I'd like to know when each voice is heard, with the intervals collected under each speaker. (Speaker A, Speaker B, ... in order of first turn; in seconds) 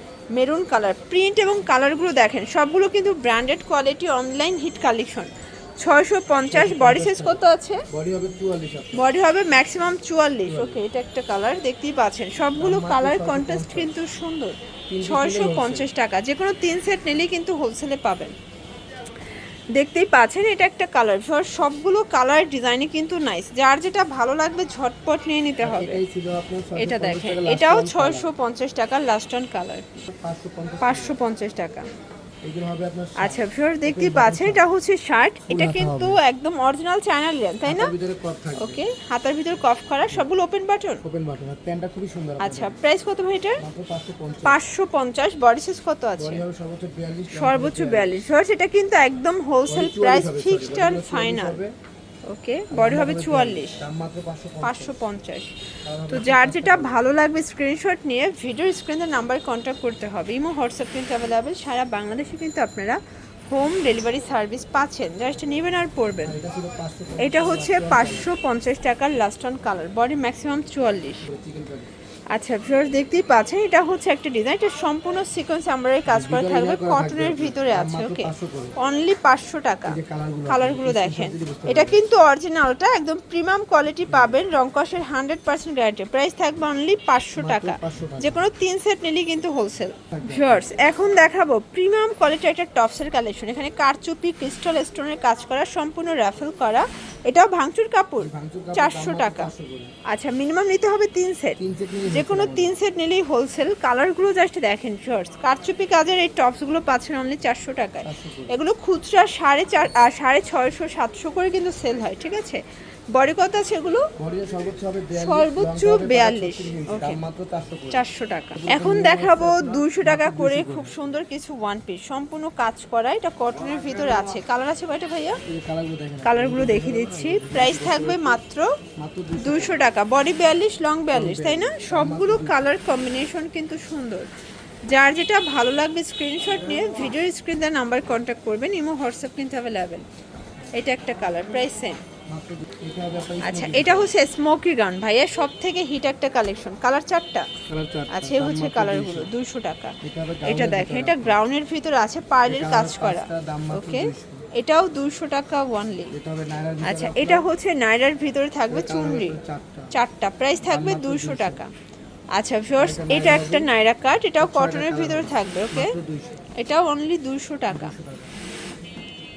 Speaker A: 0.3-7.9, 8.9-18.4, 19.7-26.0, 26.8-30.0, 30.8-31.9, 33.2-37.9, 38.6-41.0, 42.4-43.6, 44.5-46.4, 47.3-51.6, 52.3-53.8, 54.6-55.6, 56.1-66.4, 67.2-71.2, 72.3-99.5, 100.1-114.1, 115.2-117.2, 117.9-125.4, 126.2-128.7, 129.4-134.3, 134.9-140.1, 140.7-142.0, 143.4-147.5, 148.1-156.1, 156.8-159.4, 159.9-161.7, 162.3-165.9, 166.6-167.9
Speaker B: 6.5-9.1, 10.4-10.8, 12.6-13.9, 14.9-15.9, 25.6-28.3, 30.1-31.2, 32.4-34.6, 35.5-36.2, 37.6-38.8, 41.0-42.8, 43.6-44.6, 46.2-48.2, 49.7-51.7, 52.7-55.0, 55.9-57.0, 66.2-68.3, 71.2-71.9, 76.1-78.8, 79.9-82.0, 84.1-84.4, 87.4-88.5, 90.1-90.7, 98.2-99.9, 101.6-102.8, 108.0-108.6, 114.2-118.0, 118.6-120.9, 123.5-124.4, 125.5-128.4, 129.0-129.9, 131.1-132.7, 142.3-144.1, 147.7-149.3, 150.0-151.4, 152.4-154.4, 156.1-157.5, 158.7-159.9, 160.7-161.6, 162.8-163.7, 164.4-166.5, 167.7-168.3